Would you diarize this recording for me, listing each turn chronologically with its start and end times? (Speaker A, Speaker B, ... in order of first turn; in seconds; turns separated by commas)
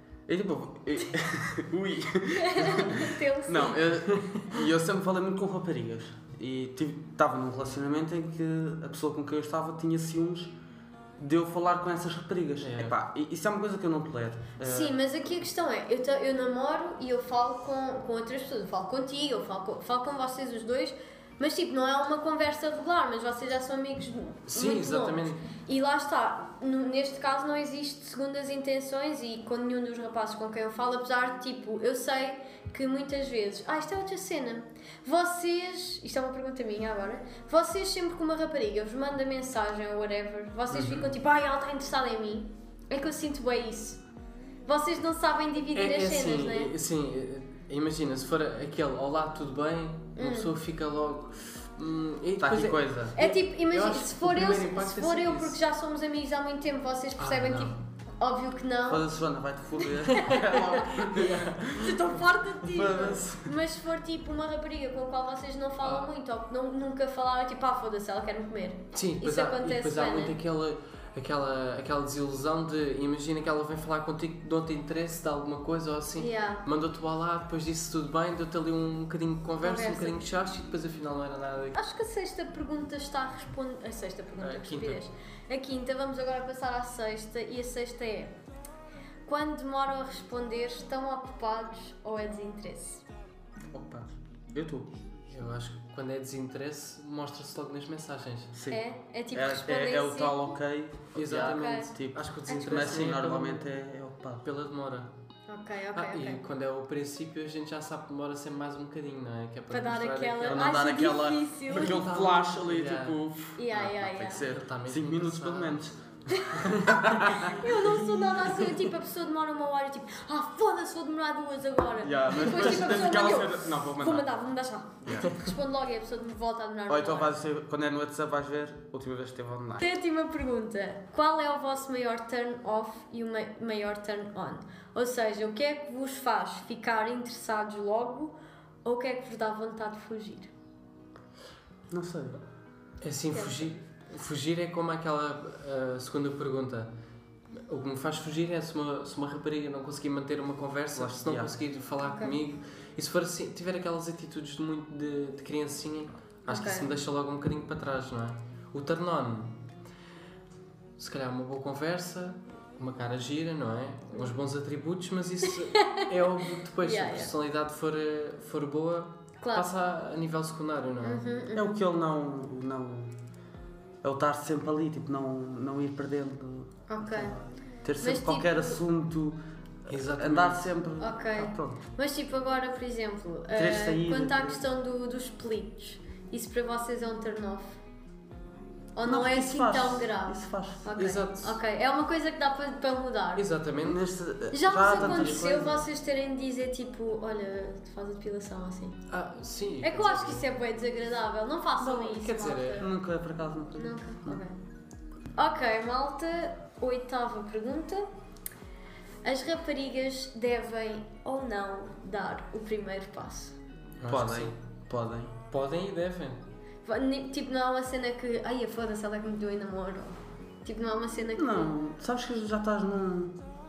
Speaker A: 0.3-10.6, Speaker B: 2.3-3.9, Speaker A: 11.2-14.9, Speaker C: 12.6-12.9, Speaker B: 14.6-44.0, Speaker C: 24.5-25.4, Speaker A: 40.7-41.0, Speaker B: 44.6-46.7, Speaker C: 45.7-55.6, Speaker B: 50.1-50.5, Speaker A: 52.4-53.1, Speaker B: 53.2-59.1, Speaker C: 57.2-57.7, Speaker A: 58.9-63.5, Speaker C: 60.1-61.8, Speaker B: 60.1-60.5, Speaker B: 61.6-70.3, Speaker C: 65.8-66.1, Speaker C: 68.9-81.8, Speaker B: 76.2-76.6, Speaker B: 79.6-80.2, Speaker B: 81.7-88.3, Speaker C: 84.4-85.0, Speaker B: 89.2-93.0, Speaker A: 93.7-95.0, Speaker C: 95.3-98.5, Speaker A: 98.5-104.4, Speaker B: 98.7-100.5, Speaker C: 101.1-103.7, Speaker B: 101.3-101.9, Speaker B: 102.5-103.0, Speaker C: 104.4-105.1, Speaker B: 105.5-106.4, Speaker C: 105.9-110.8, Speaker B: 109.7-112.0, Speaker A: 110.5-117.6, Speaker C: 111.7-113.2, Speaker B: 113.5-114.5, Speaker C: 114.4-115.8, Speaker B: 116.3-127.4, Speaker C: 116.5-118.8, Speaker A: 122.0-124.2, Speaker A: 125.0-125.3, Speaker A: 126.9-129.8, Speaker B: 129.8-140.5, Speaker A: 141.9-142.4, Speaker C: 143.0-146.9, Speaker B: 143.3-143.7, Speaker C: 147.7-159.6, Speaker A: 150.9-151.5, Speaker B: 152.0-152.4, Speaker B: 156.5-156.9, Speaker C: 161.0-171.2, Speaker B: 165.6-166.1, Speaker B: 166.8-167.3, Speaker B: 169.4-169.7, Speaker B: 171.0-171.8, Speaker A: 171.5-173.2, Speaker A: 174.0-181.8, Speaker B: 176.9-177.3, Speaker B: 178.0-178.8, Speaker C: 179.9-180.7, Speaker B: 181.0-187.8, Speaker A: 183.5-184.6, Speaker B: 188.9-193.4, Speaker A: 189.0-190.8, Speaker C: 191.0-191.6, Speaker C: 193.3-194.0, Speaker A: 193.8-195.8, Speaker B: 194.5-199.0, Speaker C: 194.9-195.3, Speaker C: 199.1-200.5, Speaker B: 199.8-202.9, Speaker C: 201.8-202.8, Speaker A: 202.8-204.4, Speaker B: 203.8-204.5, Speaker B: 205.3-208.1, Speaker B: 209.2-213.6, Speaker C: 214.0-214.5, Speaker A: 214.1-215.3, Speaker C: 215.5-216.4, Speaker B: 216.8-221.7, Speaker A: 221.3-223.4